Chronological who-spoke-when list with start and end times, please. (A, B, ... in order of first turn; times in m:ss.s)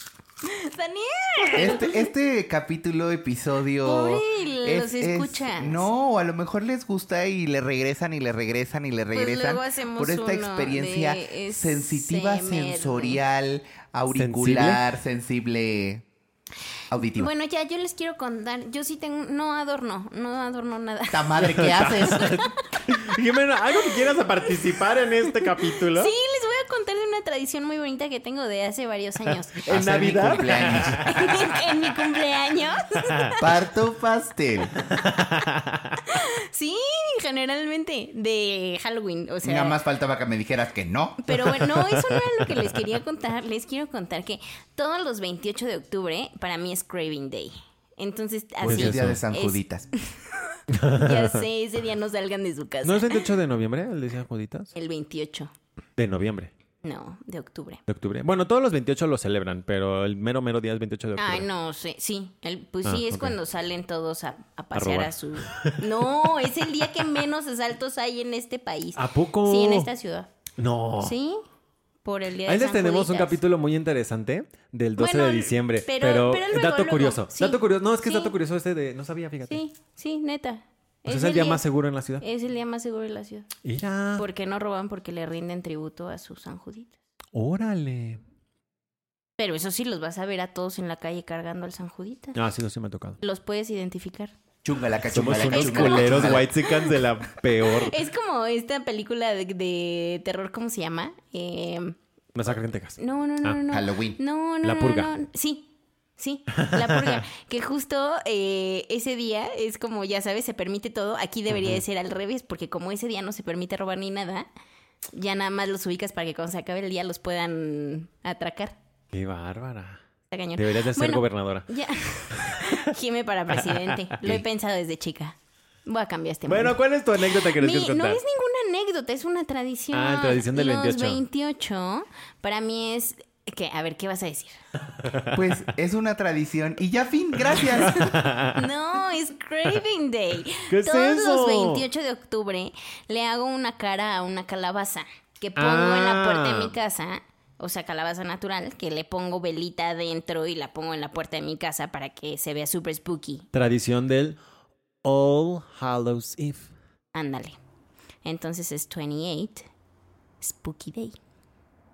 0:00.4-0:02.1 A
0:01.6-0:16.1 B
0:03.8-0:05.9 A
0:09.1-0:13.2 A
0:14.1-0:14.8 C
0:16.9-0:17.3 B
0:17.2-0:23.0 A
0:21.1-0:22.3 B
0:21.5-0:26.1 C
0:23.7-0:24.0 A
0:25.3-0:29.6 A
0:29.5-0:31.5 C
0:29.6-0:31.2 B
0:31.0-0:33.4 A
0:33.4-0:34.7 B
0:34.9-0:36.0 C
0:36.0-0:39.8 A
0:39.4-0:41.3 B
0:41.2-0:50.2 A
0:41.7-0:42.1 C
0:48.6-0:49.2 C
0:48.7-0:49.9 B
0:50.7-0:51.4 C
0:50.9-0:53.3 A
0:52.8-0:54.7 C
0:54.8-0:55.5 A
0:56.0-0:56.5 C
0:56.8-0:57.8 A
0:57.9-1:01.5 C
1:01.2-1:10.3 A
1:02.8-1:03.4 C
1:04.8-1:06.5 C
1:09.0-1:09.9 C
1:10.6-1:11.2 C
1:11.0-1:11.4 A
1:12.0-1:13.4 A
1:12.5-1:19.6 C
1:15.0-1:18.3 A
1:19.5-1:21.6 A
1:21.1-1:22.2 C
1:22.2-1:23.5 A
1:23.6-1:24.2 C
1:24.2-1:27.0 A
1:27.3-1:28.2 C
1:29.4-1:32.4 A
1:32.4-1:33.2 C
1:33.2-1:34.3 A
1:34.6-1:36.5 B
1:35.0-1:38.0 C
1:35.4-1:37.0 A
1:37.6-1:42.0 A
1:42.4-1:43.6 C
1:43.0-1:54.5 A
1:43.7-1:44.2 B
1:44.6-1:45.1 C
1:46.5-1:47.2 C
1:51.5-1:51.8 C
1:55.1-1:58.8 A
1:59.1-2:00.0 C
2:00.3-2:14.6 A
2:00.6-2:01.7 C
2:02.3-2:02.9 C
2:03.6-2:04.4 C
2:06.5-2:08.2 C
2:09.9-2:11.2 C
2:15.0-2:15.4 C
2:15.3-2:18.3 B
2:17.6-2:18.7 C
2:18.5-2:33.5 A
2:20.7-2:21.8 C
2:25.6-2:26.7 C
2:33.5-2:34.4 C
2:35.0-2:36.7 C
2:37.1-2:37.6 A
2:38.2-2:39.7 A
2:40.4-2:41.2 A